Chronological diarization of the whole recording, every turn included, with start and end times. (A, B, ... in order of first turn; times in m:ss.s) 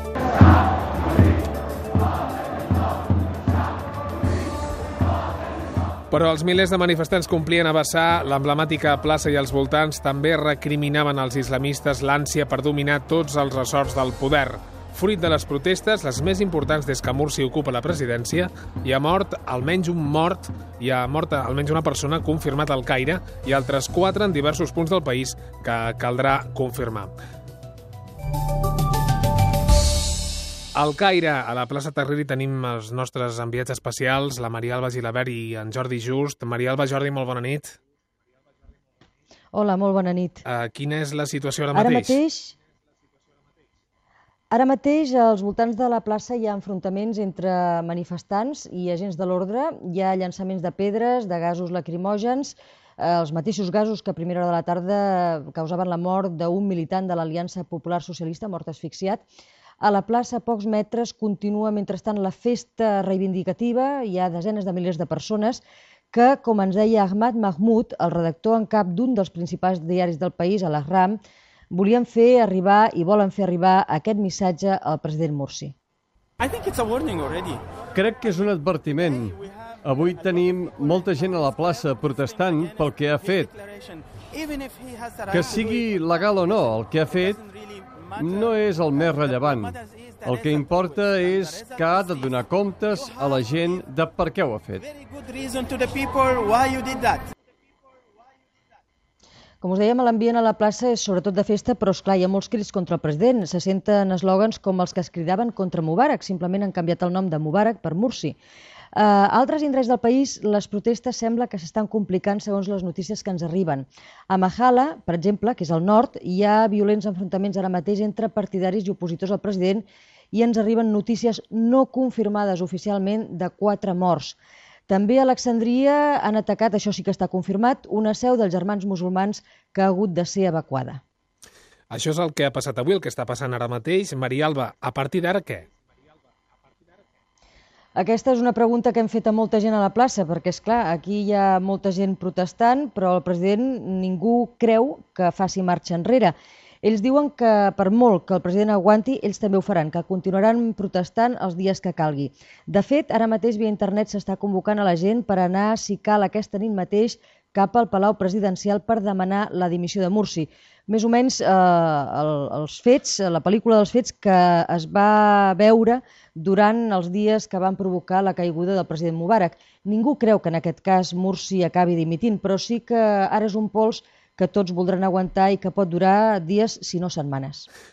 0:06.1-0:27.1 A
0:30.8-0:37.8 A
0:39.5-0:40.4 B
0:40.4-0:42.2 A
0:41.7-0:42.6 B
0:44.5-0:59.2 B
0:59.8-1:11.2 B
1:11.7-1:15.7 B
1:16.4-1:17.7 C
1:17.9-1:23.5 D
1:19.0-1:25.9 C
1:25.3-1:27.4 D
1:27.1-1:33.9 C
1:28.2-1:34.8 D
1:34.8-1:37.3 C
1:39.6-1:48.4 B
1:48.9-2:04.4 B
2:04.9-2:11.0 B
2:11.9-2:15.7 A
2:18.0-2:57.7 B